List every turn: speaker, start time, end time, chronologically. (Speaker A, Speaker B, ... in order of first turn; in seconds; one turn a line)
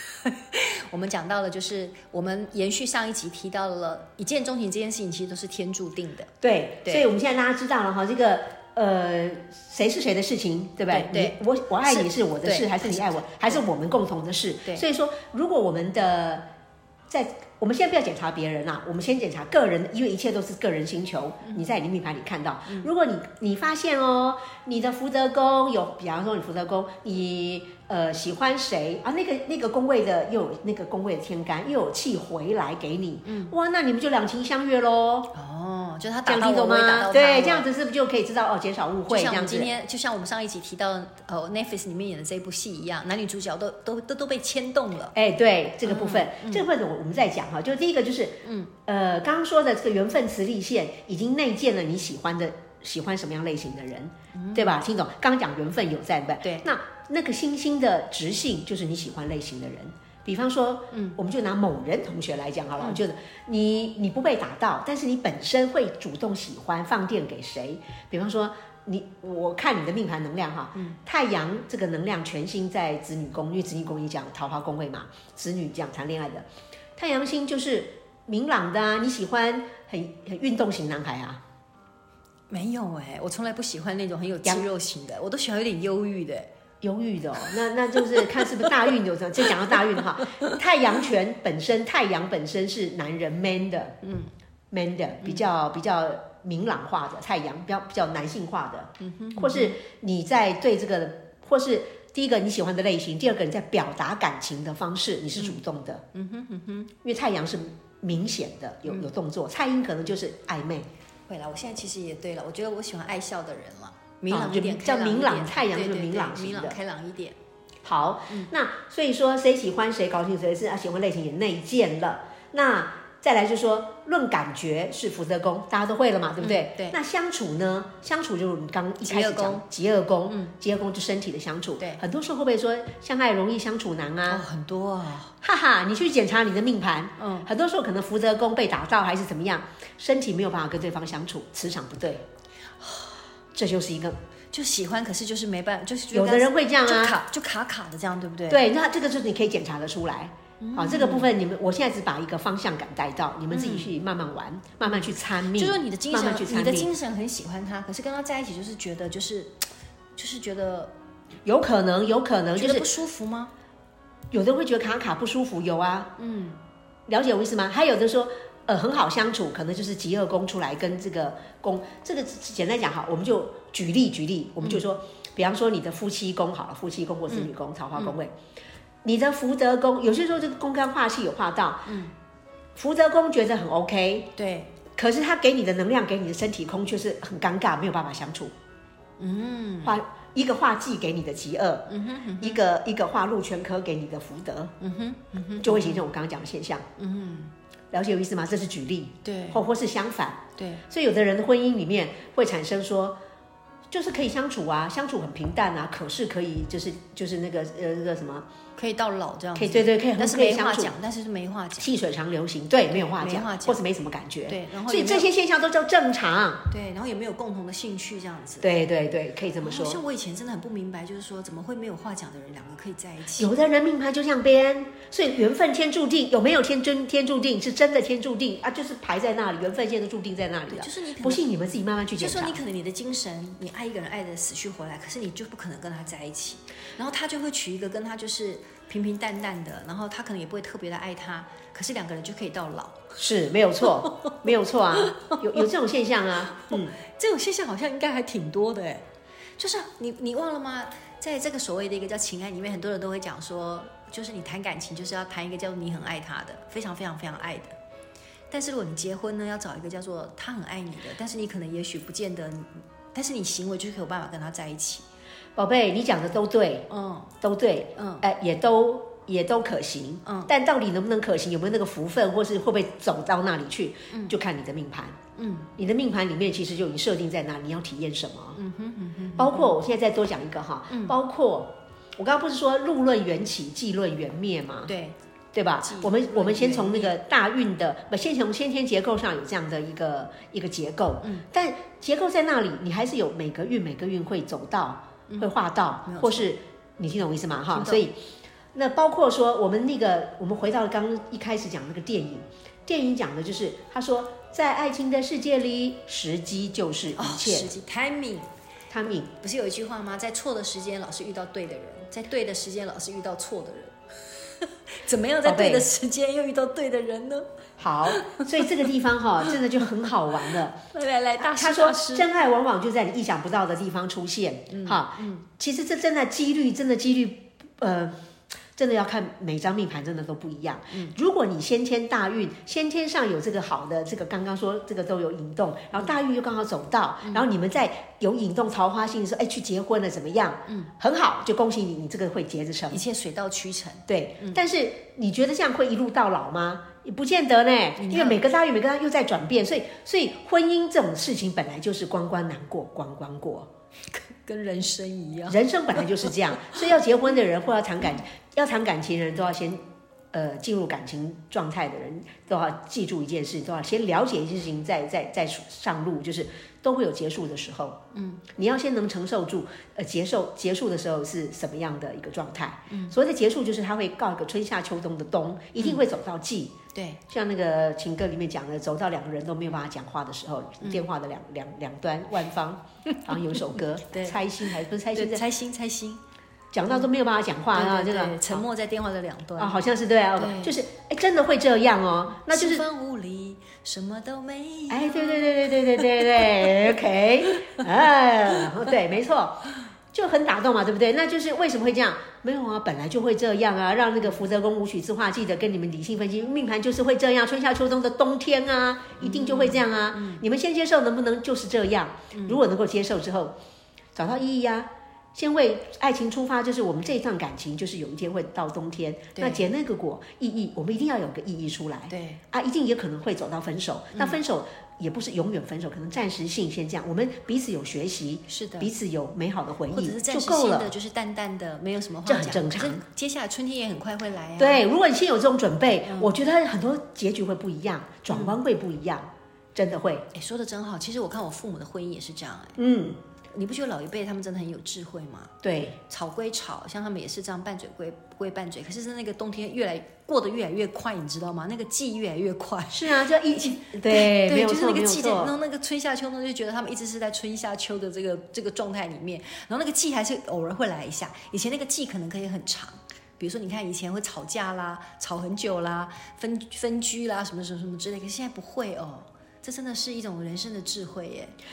Speaker A: 0.2-6.3
Speaker B: 6.4-16.4
Speaker A: 10.9-13.6
Speaker B: 17.1-35.3
Speaker A: 33.2-33.5
Speaker A: 35.3-37.7
Speaker B: 36.3-39.7
Speaker A: 39.1-45.1
Speaker B: 45.1-81.4
Speaker A: 45.9-46.7
Speaker A: 48.4-48.7
Speaker A: 54.3-54.8
Speaker A: 56.4-56.7
Speaker A: 60.9-61.2
Speaker A: 82.5-86.5
Speaker B: 86.8-94.0
Speaker A: 88.2-88.7
Speaker A: 94.0-94.3
Speaker B: 94.7-106.0
Speaker A: 99.0-99.8
Speaker A: 106.1-106.9
Speaker B: 107.0-110.9
Speaker A: 111.3-117.4
Speaker B: 114.3-116.8
Speaker B: 117.8-134.4
Speaker A: 126.4-127.0
Speaker A: 129.0-129.7
Speaker A: 130.3-130.5
Speaker A: 134.3-135.3
Speaker B: 135.4-142.2
Speaker A: 137.2-137.5
Speaker A: 142.8-143.1
Speaker B: 143.5-144.2
Speaker A: 144.5-148.6
Speaker B: 146.1-147.2
Speaker B: 148.5-156.9
Speaker A: 150.6-151.3
Speaker A: 153.5-153.9
Speaker A: 154.9-159.6
Speaker A: 160.2-160.9
Speaker B: 161.4-162.9
Speaker A: 162.6-163.5
Speaker B: 164.3-166.1
Speaker A: 166.2-166.6
Speaker B: 167.1-178.3
Speaker A: 177.3-178.2
Speaker B: 179.0-181.9
Speaker A: 181.9-182.1
Speaker B: 182.8-184.3
Speaker A: 184.4-184.7
Speaker B: 185.0-188.5
Speaker A: 189.2-190.0
Speaker B: 189.8-194.7
Speaker A: 191.9-192.6
Speaker A: 194.8-196.1
Speaker B: 195.6-196.8
Speaker A: 197.0-197.5
Speaker B: 197.9-203.2
Speaker A: 199.2-199.6
Speaker A: 200.6-200.8
Speaker B: 203.9-208.5
Speaker A: 208.8-211.9
Speaker B: 209.6-210.9
Speaker B: 211.8-216.7
Speaker A: 212.9-213.8
Speaker A: 214.5-215.3
Speaker A: 216.7-218.7
Speaker B: 218.6-220.0
Speaker A: 219.6-223.5
Speaker B: 223.4-232.6
Speaker A: 230.7-231.5
Speaker A: 232.2-243.0
Speaker B: 243.2-247.0
Speaker A: 244.0-244.4
Speaker A: 245.0-245.6
Speaker A: 246.6-249.1
Speaker A: 249.6-257.8
Speaker A: 258.5-265.1
Speaker B: 265.6-266.9
Speaker A: 266.9-267.3
Speaker B: 267.4-275.2
Speaker A: 268.0-268.2
Speaker A: 270.3-270.5
Speaker A: 274.1-274.4
Speaker A: 275.4-275.7
Speaker B: 275.8-278.6
Speaker A: 278.6-279.8
Speaker B: 279.4-284.9
Speaker A: 280.9-281.2
Speaker A: 284.9-285.2
Speaker B: 285.5-298.2
Speaker A: 285.8-287.1
Speaker A: 296.1-296.5
Speaker A: 297.7-298.0
Speaker B: 298.7-307.7
Speaker A: 307.2-308.5
Speaker B: 308.9-309.3
Speaker A: 309.4-313.9
Speaker A: 314.9-317.5
Speaker B: 315.4-315.9
Speaker B: 317.8-320.8
Speaker A: 318.1-318.7
Speaker A: 320.9-322.3
Speaker B: 321.4-328.2
Speaker A: 324.7-325.4
Speaker B: 328.8-343.0
Speaker A: 342.9-344.6
Speaker B: 344.1-353.7
Speaker A: 348.0-348.4
Speaker A: 354.1-356.1
Speaker B: 355.5-359.8
Speaker B: 360.3-368.0
Speaker A: 368.1-368.4
Speaker B: 368.6-376.8
Speaker A: 372.9-373.2
Speaker A: 375.8-376.0
Speaker A: 376.9-377.2
Speaker B: 377.3-385.4
Speaker A: 384.1-384.4
Speaker A: 385.1-386.2
Speaker B: 386.7-388.6
Speaker A: 387.7-389.8
Speaker B: 389.6-392.9
Speaker A: 390.4-390.8
Speaker A: 392.4-396.8
Speaker B: 394.9-413.6
Speaker A: 409.2-410.4
Speaker A: 412.3-412.6
Speaker B: 414.1-430.9
Speaker A: 419.4-419.7
Speaker A: 422.1-422.4
Speaker A: 428.5-428.9
Speaker A: 429.9-434.9
Speaker B: 432.3-433.0
Speaker B: 434.6-440.3
Speaker A: 436.1-436.3
Speaker A: 438.3-438.6
Speaker A: 440.3-442.8
Speaker B: 442.8-443.2
Speaker A: 443.5-445.5
Speaker B: 445.6-446.0
Speaker A: 446.1-471.6
Speaker B: 452.9-455.5